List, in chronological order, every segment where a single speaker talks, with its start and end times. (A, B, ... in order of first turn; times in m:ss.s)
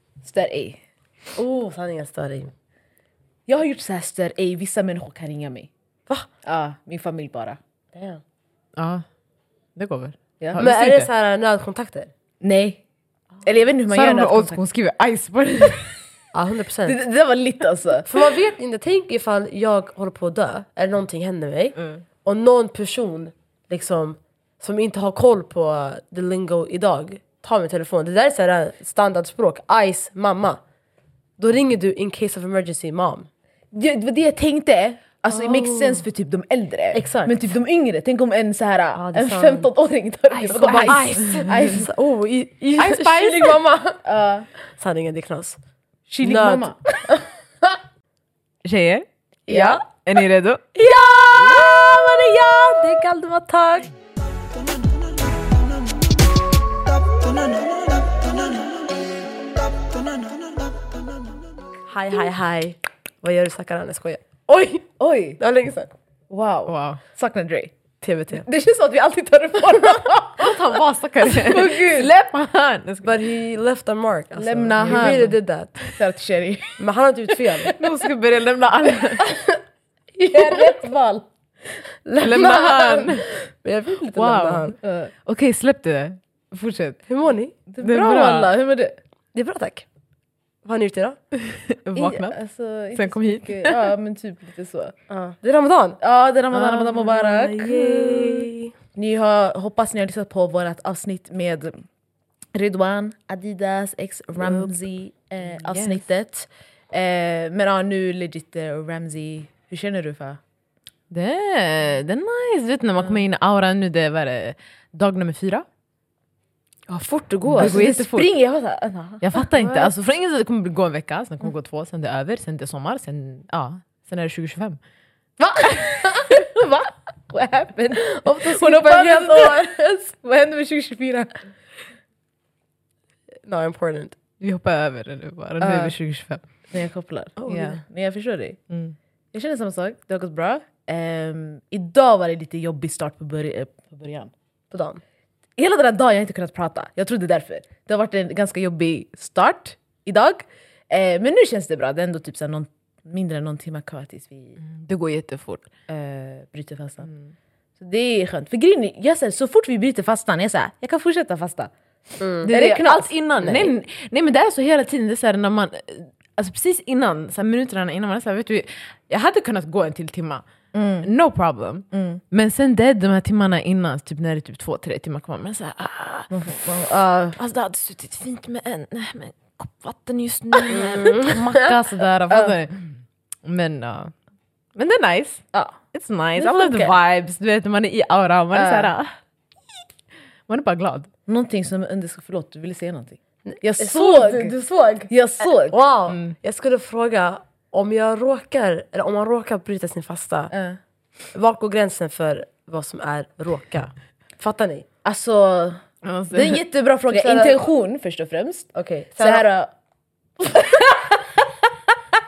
0:00.2-0:00.8 A
0:01.4-0:02.5 B
0:03.5-0:05.7 A
0:06.4-0:07.6 A
0:07.9-0:08.2 B
0:08.8-0:09.0 C
0:09.8-0:11.1 C
0:10.4-0:10.6 A
0:10.6-0:12.1 B
0:12.4-0:12.8 A
0:13.4-0:14.6 A
0:13.9-0:16.0 C
0:16.3-0:17.0 B
0:16.8-0:18.1 A
0:18.0-0:30.6 B
0:31.4-0:33.3 B
0:33.7-0:41.9 A
0:35.3-0:36.0 B
0:36.9-0:37.4 B
0:38.9-0:39.7 B
0:40.3-0:44.0 B
0:40.6-0:41.8 C
0:42.8-0:44.5 A
0:44.6-0:45.6 B
0:46.1-0:46.8 A
0:46.2-0:47.2 B
0:48.6-0:49.1 C
0:49.5-0:49.8 A
0:49.5-0:49.8 B
0:49.8-0:50.6 C
0:50.7-0:53.0 B
0:51.3-0:53.8 A
1:01.9-1:04.8 B
1:04.8-1:05.4 A
1:05.4-1:05.9 B
1:06.3-1:07.7 A
1:06.7-1:07.0 C
1:08.0-1:08.4 B
1:08.3-1:10.6 A
1:10.3-1:13.1 C
1:11.2-1:12.1 A
1:13.0-1:15.8 B
1:14.4-1:15.3 A
1:14.8-1:15.9 C
1:15.9-1:16.8 A
1:16.8-1:17.7 B
1:17.5-1:17.9 A
1:17.8-1:19.2 C
1:20.2-1:21.3 A
1:20.3-1:20.8 B
1:22.0-1:24.7 B
1:22.2-1:23.2 C
1:24.1-1:27.0 C
1:24.8-1:25.1 A
1:27.1-1:27.5 B
1:27.7-1:29.0 A
1:27.8-1:28.5 C
1:29.3-1:29.8 B
1:30.6-1:31.2 B
1:31.4-1:32.4 C
1:32.0-1:34.9 A
1:32.9-1:33.8 C
1:35.1-1:36.0 B
1:36.0-1:37.8 A
1:36.5-1:38.4 C
1:37.1-1:38.7 B
1:38.9-1:41.8 A
1:42.5-1:50.4 A
1:45.6-1:46.0 C
1:51.1-1:55.6 C
1:56.9-1:58.3 C
1:57.4-1:59.4 A
1:59.2-2:04.8 C
2:05.4-2:11.4 A
2:08.0-2:09.8 B
2:13.4-2:14.2 B
2:14.4-2:16.4 C
2:15.6-2:15.9 A
2:16.7-2:18.6 A
2:17.4-2:17.8 B
2:18.7-2:18.9 C
2:19.3-2:24.3 A
2:24.7-2:25.0 B
2:25.6-2:34.6 A
2:34.6-2:35.7 C
2:35.9-2:37.1 A
2:37.8-2:41.7 A
2:42.2-2:42.5 B
2:42.4-2:43.7 A
2:42.4-2:50.4 C
2:50.7-2:51.1 A
2:51.0-2:56.5 C
2:51.9-2:52.2 A
2:56.3-2:57.4 A
2:57.4-3:04.1 C
3:00.5-3:00.9 A
3:00.8-3:01.8 B
3:02.3-3:02.5 A
3:04.8-3:09.1 C
3:06.4-3:06.9 A
3:08.5-3:08.9 A
3:10.5-3:11.1 C
3:11.3-3:15.7 A
3:13.4-3:20.5 B
3:16.1-3:16.3 C
3:20.5-3:20.8 A
3:21.3-3:24.8 B
3:25.0-3:29.7 A
3:26.0-3:26.6 C
3:27.1-3:27.6 B
3:28.7-3:29.4 B
3:30.4-3:31.5 A